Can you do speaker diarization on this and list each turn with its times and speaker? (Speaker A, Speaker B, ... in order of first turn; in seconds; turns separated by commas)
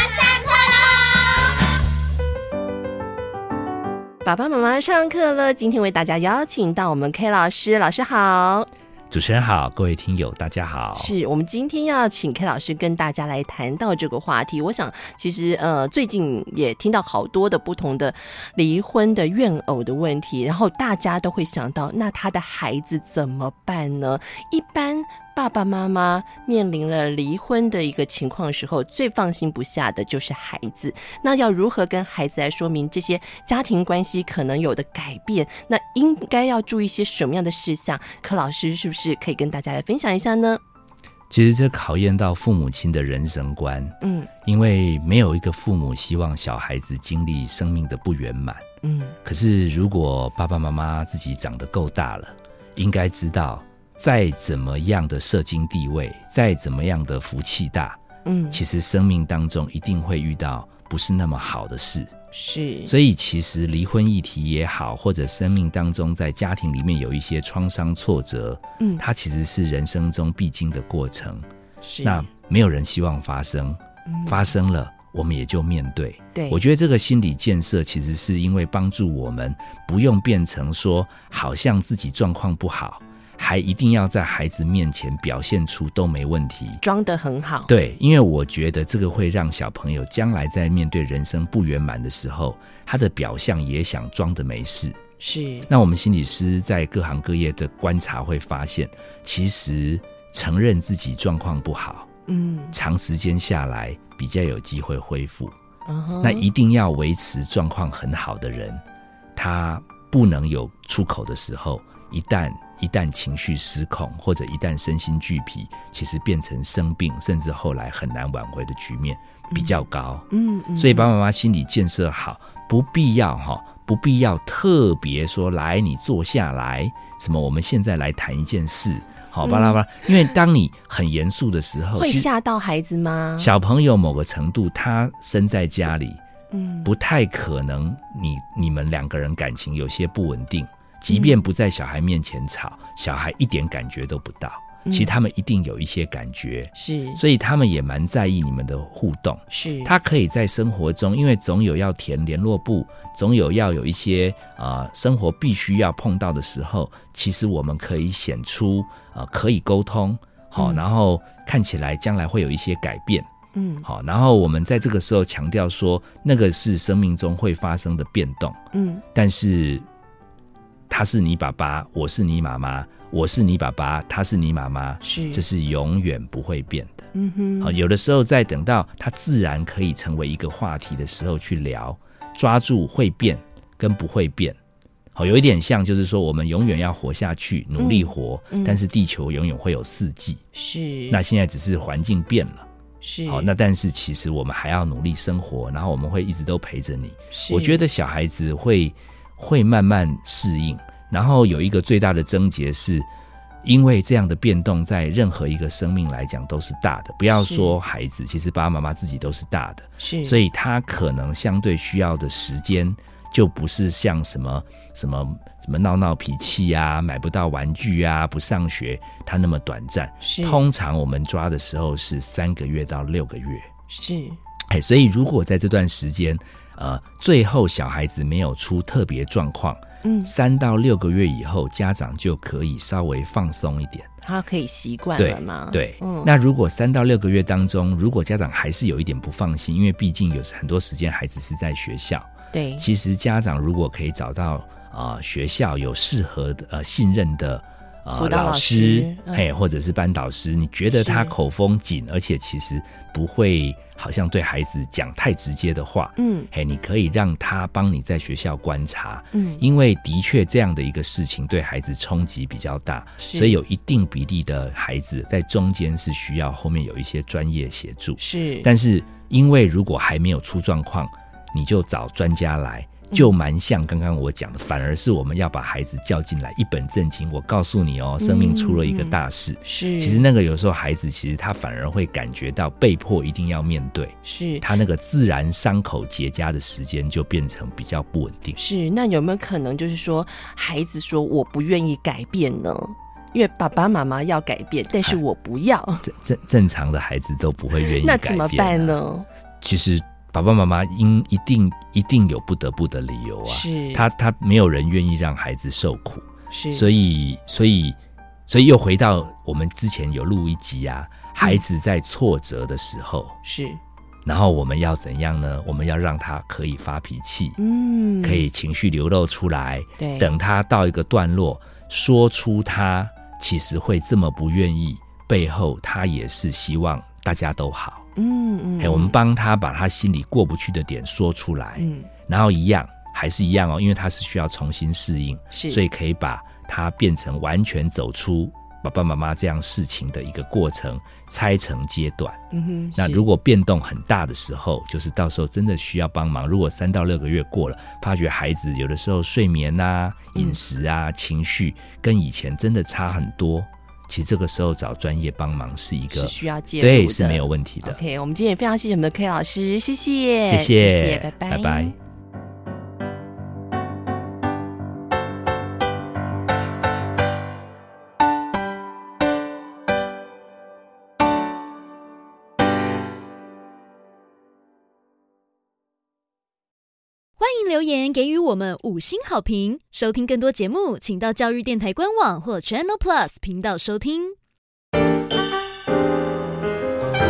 Speaker A: 4.2-8.7, Speaker B: 9.1-11.1, Speaker A: 11.0-40.6, Speaker B: 41.3-48.6, Speaker A: 44.0-44.3, Speaker A: 48.8-49.2, Speaker B: 49.2-58.0, Speaker A: 58.2-58.6, Speaker B: 58.5-62.1, Speaker A: 62.3-62.9, Speaker B: 62.9-71.5, Speaker A: 68.8-69.0, Speaker A: 71.8-72.2, Speaker B: 72.0-86.8, Speaker A: 74.1-74.5, Speaker A: 76.3-76.6, Speaker A: 86.8-87.7, Speaker B: 87.7-95.0, Speaker A: 95.2-95.7, Speaker B: 95.7-102.1, Speaker A: 102.3-102.8, Speaker B: 102.7-105.5, Speaker A: 105.9-106.5, Speaker B: 106.2-108.8, Speaker B: 109.4-132.3, Speaker A: 119.5-119.8, Speaker A: 120.3-121.1, Speaker A: 129.4-129.8, Speaker A: 132.0-133.5, Speaker B: 133.4-136.2, Speaker A: 136.5-136.9, Speaker B: 136.8-163.3, Speaker A: 141.1-141.4, Speaker A: 144.8-145.1, Speaker A: 146.7-147.2, Speaker A: 149.5-149.9, Speaker A: 160.6-160.8, Speaker A: 163.5-163.9, Speaker B: 163.8-168.6, Speaker A: 168.7-169.0, Speaker B: 169.1-169.9, Speaker B: 170.9-177.1, Speaker A: 175.0-175.4, Speaker A: 177.1-177.8, Speaker B: 177.6-184.6, Speaker B: 185.2-190.4, Speaker A: 187.8-188.8, Speaker A: 190.5-191.2, Speaker B: 191.1-192.7, Speaker A: 193.0-193.5, Speaker B: 193.3-203.1, Speaker A: 197.3-197.8, Speaker B: 203.6-223.7, Speaker A: 207.4-207.7, Speaker A: 210.0-210.4, Speaker A: 220.2-220.7, Speaker A: 223.9-224.4, Speaker B: 224.7-234.1, Speaker A: 230.0-230.3, Speaker A: 234.2-236.3, Speaker B: 235.2-288.6, Speaker A: 242.5-242.9, Speaker A: 248.2-249.4, Speaker A: 250.9-251.4, Speaker A: 256.2-256.5, Speaker A: 259.3-259.6, Speaker A: 263.2-263.6, Speaker A: 268.2-268.7, Speaker A: 278.2-280.3, Speaker A: 284.2-284.7, Speaker A: 288.6-296.1, Speaker B: 296.0-299.0, Speaker A: 297.8-299.3, Speaker B: 299.6-308.0, Speaker A: 303.5-304.1, Speaker A: 306.5-306.9, Speaker B: 308.5-313.4, Speaker A: 313.4-313.8, Speaker B: 314.2-317.6, Speaker A: 317.6-318.5, Speaker B: 318.2-328.1, Speaker A: 320.0-320.4, Speaker A: 328.2-329.2, Speaker B: 328.8-342.4, Speaker A: 331.8-332.1, Speaker A: 335.5-335.8, Speaker A: 342.5-343.3, Speaker B: 343.0-358.0, Speaker A: 356.1-361.9, Speaker B: 360.4-362.0, Speaker C: 377.4-384.4